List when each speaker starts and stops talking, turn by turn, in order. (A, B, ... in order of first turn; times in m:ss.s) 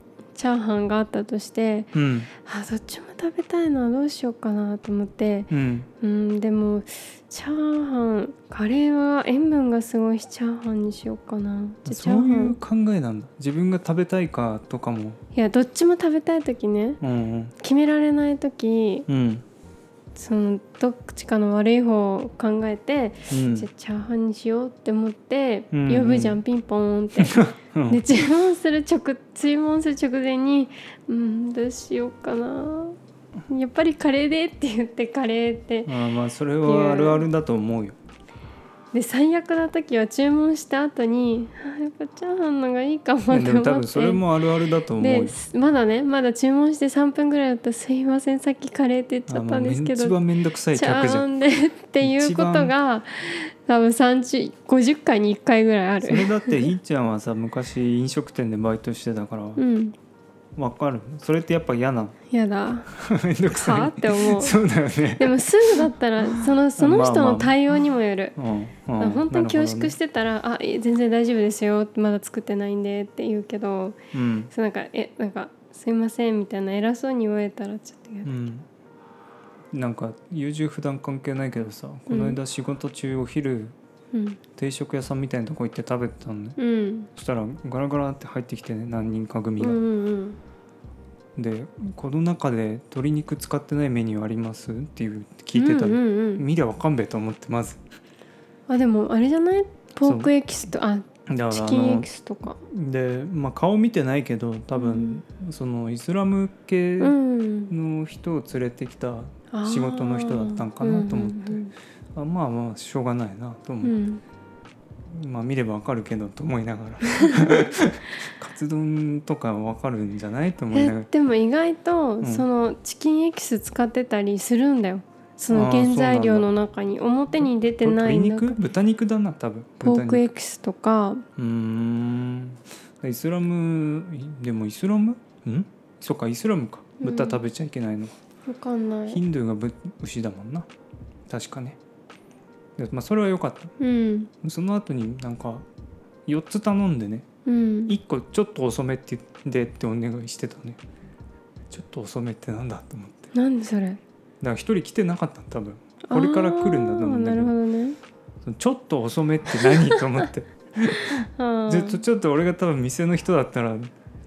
0:00.3-0:12.6 A
0:01.9-0:02.3 B
0:05.5-0:05.9 B
0:11.8-0:15.2 B
0:15.3-0:17.0 A
0:17.0-0:17.5 B
0:17.6-0:19.1 A
0:19.1-0:19.4 B
0:20.1-0:33.0 A
0:23.3-0:23.7 B
0:25.7-0:26.4 B
0:27.2-0:28.0 B
0:33.5-0:35.9 A
0:35.8-0:38.0 B
0:36.6-0:37.3 A
0:38.9-0:44.2 A
0:43.3-0:45.4 B
0:45.0-0:50.2 A
0:49.3-0:51.2 B
0:50.7-0:56.7 A
0:52.0-0:52.7 B
0:56.0-0:59.6 B
0:59.6-1:00.0 A
1:00.6-1:02.2 B
1:02.3-1:02.9 A
1:02.9-1:07.5 B
1:03.5-1:04.6 A
1:05.2-1:08.4 A
1:08.4-1:10.0 B
1:09.0-1:14.0 A
1:14.1-1:14.5 B
1:14.5-1:18.3 A
1:18.2-1:18.6 B
1:19.7-1:23.7 B
1:22.1-1:22.4 A
1:24.1-1:24.4 A
1:24.6-1:26.6 B
1:26.6-1:27.1 A
1:27.1-1:29.8 B
1:29.6-1:30.4 A
1:31.4-1:37.8 B
1:35.5-1:36.4 A
1:38.7-1:42.6 A
1:40.0-1:40.3 B
1:41.3-1:42.1 B
1:42.6-1:47.2 B
1:44.8-1:45.2 A
1:47.0-1:47.7 A
1:47.7-1:51.6 B
1:49.5-1:51.7 A
1:52.1-1:54.0 B
1:53.8-1:54.2 A
1:55.1-2:01.1 B
1:57.2-1:57.5 A
2:00.7-2:08.6 A
2:05.5-2:06.5 B
2:07.8-2:10.3 B
2:09.8-2:11.2 A
2:11.4-2:18.1 B
2:17.0-2:17.4 A
2:18.4-2:19.2 A
2:19.1-2:20.7 B
2:21.3-2:21.8 B
2:22.8-2:23.7 B
2:23.8-2:24.3 A
2:24.4-2:25.6 B
2:26.3-2:27.2 B
2:27.4-2:28.0 A
2:27.8-2:30.8 B
2:31.7-2:33.3 B
2:33.3-2:34.0 A
2:34.4-2:37.5 B
2:36.1-2:38.0 A
2:38.4-2:43.9 B
2:39.6-2:40.2 A
2:41.0-2:42.0 A